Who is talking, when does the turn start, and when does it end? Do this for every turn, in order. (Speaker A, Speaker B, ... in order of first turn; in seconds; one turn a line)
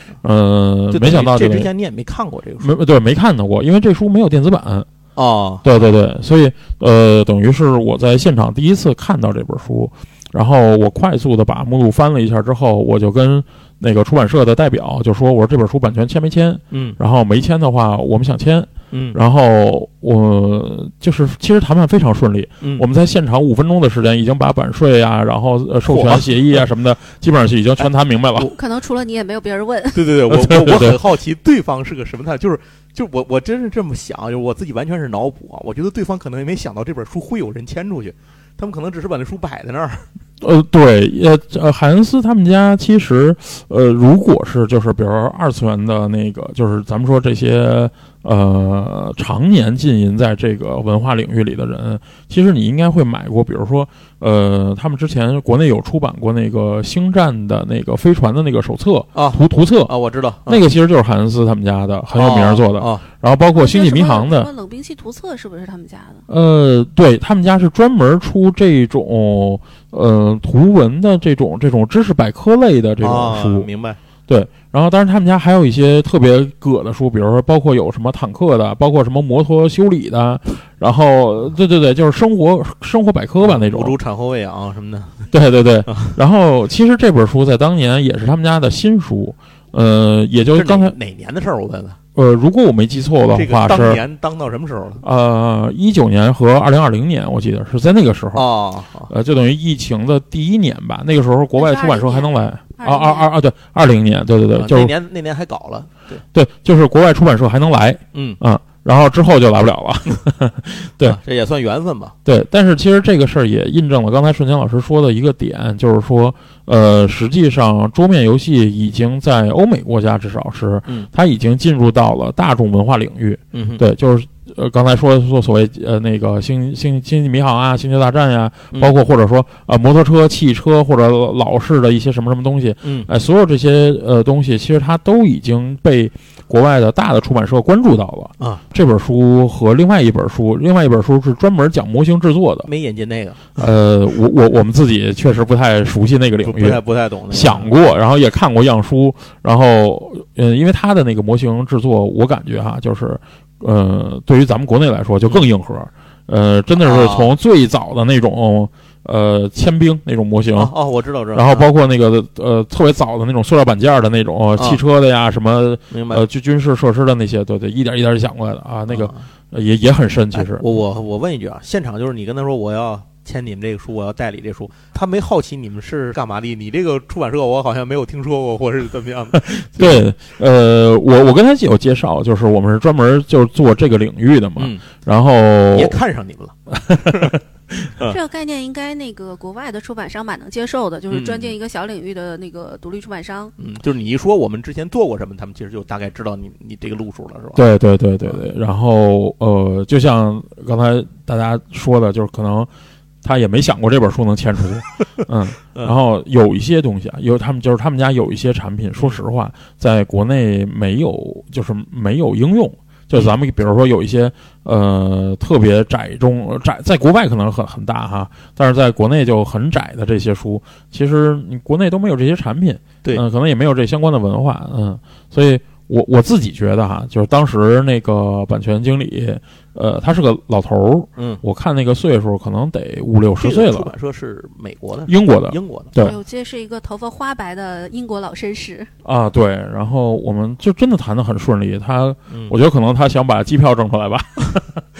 Speaker A: 0.2-1.7
Speaker B: 0.9-2.7
Speaker A: 2.6-4.9
Speaker B: 5.2-5.8
Speaker A: 5.6-28.5
Speaker B: 16.7-17.0
Speaker B: 18.9-19.2
Speaker B: 25.9-26.6
Speaker C: 28.4-30.1
Speaker B: 29.9-40.1
Speaker A: 30.3-31.0
Speaker A: 40.4-59.9
Speaker B: 59.1-60.6
Speaker A: 60.5-64.5
Speaker B: 62.1-63.0
Speaker C: 63.5-66.2
Speaker A: 66.3-73.7
Speaker B: 73.0-74.0
Speaker A: 74.3-84.0
Speaker B: 83.4-85.3
Speaker A: 85.3-91.0
Speaker B: 85.9-86.2
Speaker B: 90.5-92.0
Speaker A: 92.2-94.0
Speaker B: 93.3-95.0
Speaker A: 95.0-98.5
Speaker B: 98.3-99.1
Speaker A: 99.1-104.9
Speaker C: 101.5-103.3
Speaker B: 104.6-106.2
Speaker A: 106.3-111.2
Speaker B: 108.1-108.4
Speaker B: 111.0-112.2
Speaker A: 112.2-142.7
Speaker B: 123.5-123.8
Speaker B: 132.8-133.1
Speaker B: 142.7-143.7
Speaker A: 143.6-160.7
Speaker B: 146.4-147.7
Speaker B: 156.8-157.3
Speaker B: 160.6-161.7
Speaker A: 161.3-170.7
Speaker B: 165.9-166.2
Speaker B: 168.9-169.3
Speaker B: 170.3-180.1
Speaker A: 179.4-186.0
Speaker B: 184.6-184.9
Speaker B: 185.7-187.4
Speaker C: 188.1-193.6
Speaker B: 191.1-191.5
Speaker B: 193.6-197.6
Speaker A: 197.6-202.7
Speaker A: 203.2-233.9
Speaker B: 231.2-231.4
Speaker B: 233.4-235.9
Speaker A: 235.1-236.2
Speaker C: 236.0-238.9
Speaker A: 239.0-244.8
Speaker B: 242.3-242.6